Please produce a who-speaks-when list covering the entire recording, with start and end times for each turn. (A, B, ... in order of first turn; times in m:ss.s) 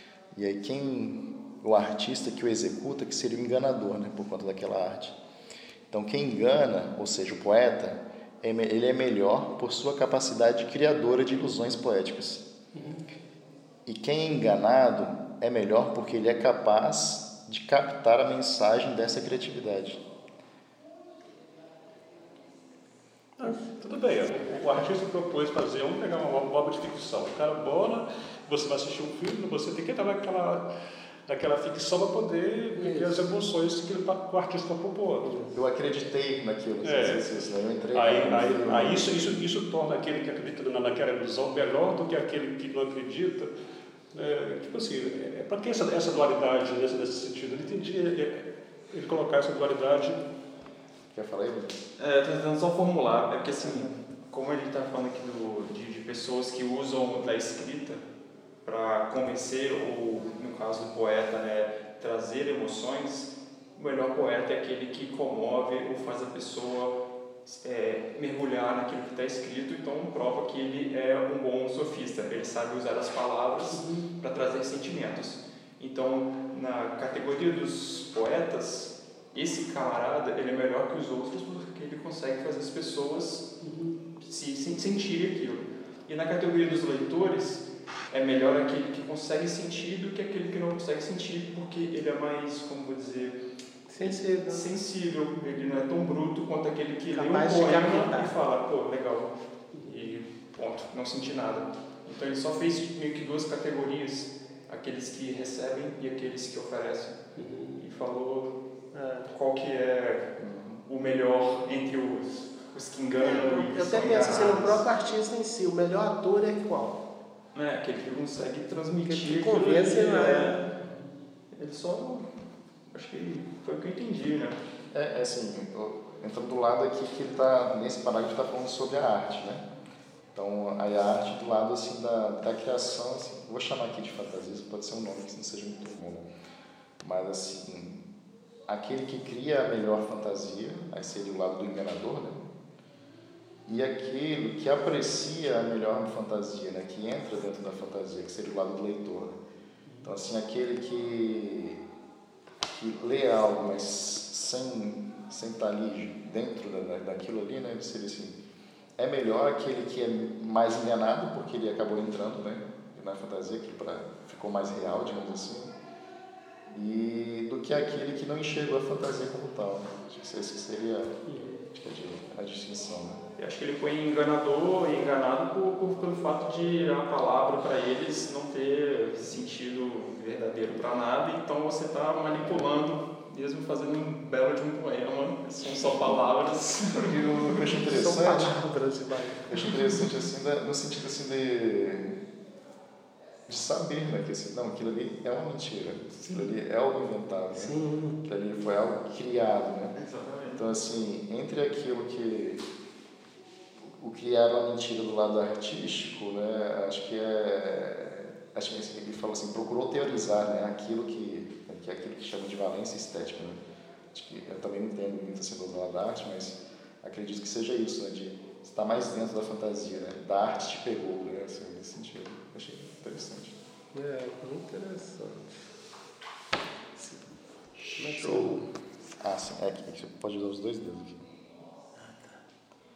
0:00.3-0:05.2 A
0:05.9-0:12.5 A
0:12.8-0:13.0 B
0:13.9-0:20.0 A
0:23.4-0:30.7 B
0:31.3-0:35.3 B
0:32.8-0:33.2 C
0:35.2-0:35.6 C
0:35.5-0:39.4 A
0:36.8-0:37.2 B
0:37.9-0:43.5 B
0:44.1-0:50.2 B
0:51.1-0:51.8 A
0:52.0-0:58.0 D
0:58.6-1:23.6 D
1:13.7-1:14.1 B
1:23.6-1:24.0 B
1:24.2-1:33.4 D
1:33.9-1:34.8 C
1:34.0-1:47.2 D
1:37.1-1:38.3 C
1:39.8-1:40.1 B
1:47.4-1:47.8 B
1:47.8-1:48.6 D
1:48.9-1:49.3 C
1:49.3-1:54.8 D
1:50.4-1:50.8 A
1:53.2-1:57.0 C
1:57.6-2:00.7 D
1:59.1-2:00.6 C
2:01.5-2:02.3 D
2:02.9-2:04.6 D
2:04.9-2:09.6 A
2:10.4-2:16.3 A
2:17.0-2:18.1 A
2:18.7-2:22.5 A
2:23.7-2:29.3 A
2:30.0-2:31.8 A
2:32.7-2:38.4 A
2:39.0-2:45.7 A
2:46.7-2:53.2 A
2:51.3-2:51.6 B
2:53.4-3:07.8 D
3:02.4-3:02.8 A
3:05.6-3:06.0 A
3:07.4-3:08.6 A
3:07.8-3:09.8 C
3:09.5-3:12.2 A
3:13.5-3:20.0 A
3:17.5-3:18.2 C
3:20.0-3:20.6 D
3:20.5-3:22.6 A
3:23.8-3:33.6 A
3:34.1-3:43.6 A
3:43.9-3:45.7 C
3:47.0-3:47.3 C
3:47.8-3:48.5 D
3:48.0-3:48.6 C
3:48.2-3:48.6 A
3:49.2-3:51.2 A
3:52.0-3:52.4 C